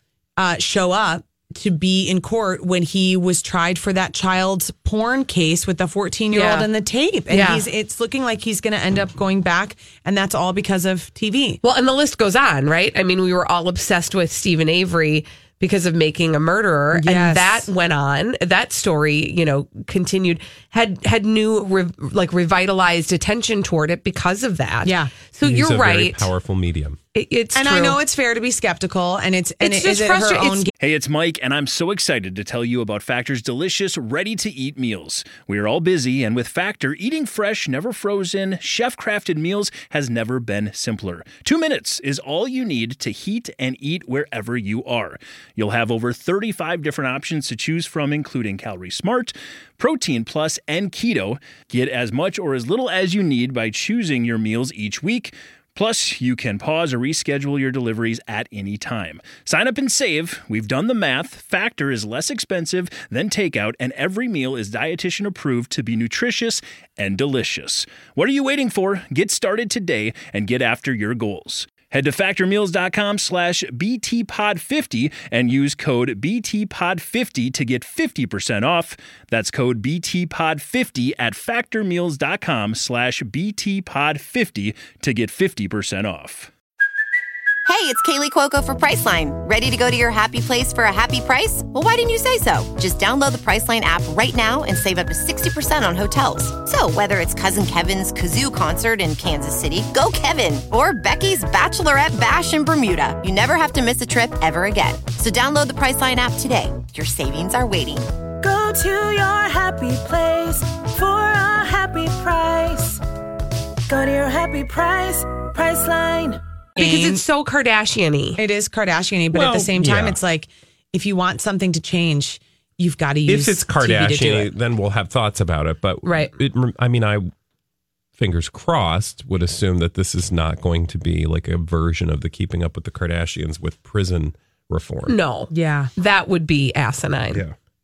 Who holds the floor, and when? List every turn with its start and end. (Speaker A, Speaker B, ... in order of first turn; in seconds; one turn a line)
Speaker A: 0.4-11.6
Speaker B: 6.3-6.7
Speaker B: 7.3-7.7
Speaker B: 11.6-26.3
Speaker A: 16.9-17.7
Speaker A: 24.8-25.1
Speaker C: 25.4-27.0
Speaker B: 27.1-28.0
Speaker A: 27.5-30.7
Speaker B: 29.6-30.7
Speaker D: 30.8-86.5
Speaker E: 87.7-108.1
Speaker F: 108.4-113.0
Speaker F: 113.9-116.4
Speaker A: 116.8-117.2
Speaker B: 116.8-118.4
Speaker A: 118.4-124.5
Speaker C: 119.3-120.2
Speaker C: 123.3-127.3
Speaker B: 126.0-126.3
Speaker C: 128.2-135.2
Speaker B: 135.1-137.4
Speaker A: 135.5-135.9